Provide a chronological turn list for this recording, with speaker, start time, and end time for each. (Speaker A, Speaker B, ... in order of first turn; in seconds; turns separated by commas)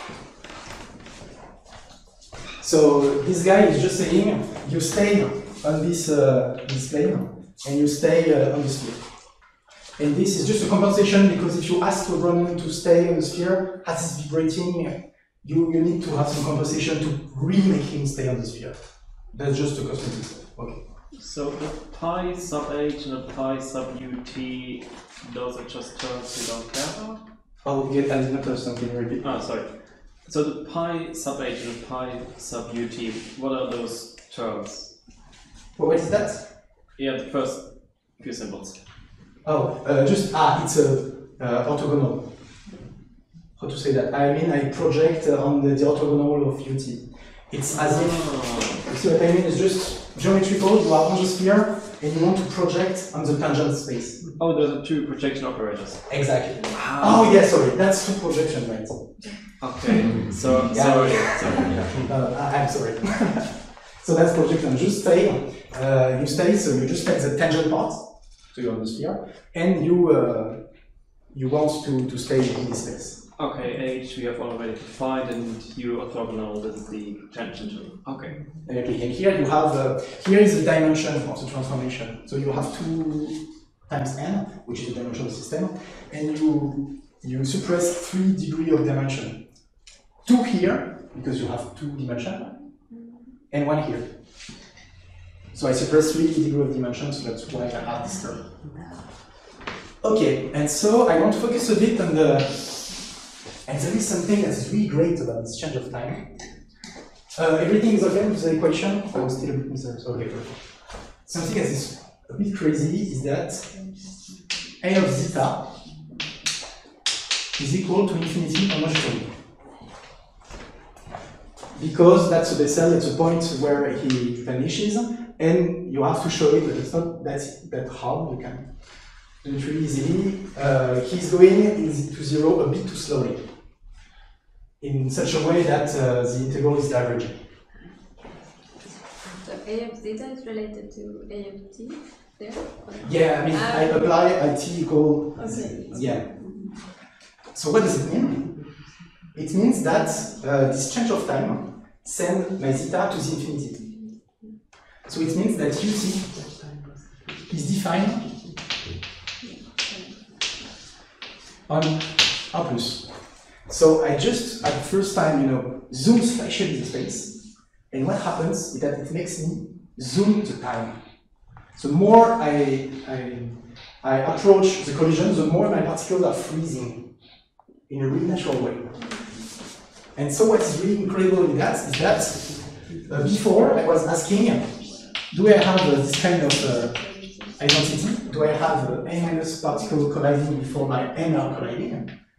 Speaker A: 2.6-20.8, Speaker B: 21.1-27.2, Speaker A: 27.6-29.3, Speaker B: 29.2-35.1, Speaker A: 35.8-36.5, Speaker B: 36.9-38.8, Speaker A: 39.4-42.8, Speaker A: 43.6-54.3, Speaker B: 47.7-48.9, Speaker B: 54.2-57.4, Speaker A: 56.1-59.3, Speaker B: 59.6-62.1, Speaker A: 60.6-73.2, Speaker B: 73.4-78.4, Speaker A: 78.6-92.8, Speaker C: 92.9-93.2, Speaker A: 93.5-94.5, Speaker A: 95.5-98.8, Speaker A: 100.0-106.7, Speaker A: 107.3-113.9, Speaker A: 114.8-115.7, Speaker A: 117.5-119.4, Speaker A: 121.7-133.5, Speaker A: 134.8-137.5, Speaker C: 139.2-144.0, Speaker A: 143.0-146.4, Speaker C: 145.4-146.7, Speaker A: 147.5-148.8, Speaker A: 149.3-153.8, Speaker C: 153.8-154.5, Speaker A: 155.1-156.4, Speaker A: 157.5-158.3, Speaker C: 159.4-160.5, Speaker A: 161.7-179.1, Speaker C: 179.0-179.4, Speaker A: 180.1-192.2, Speaker C: 184.8-185.2, Speaker C: 186.9-187.6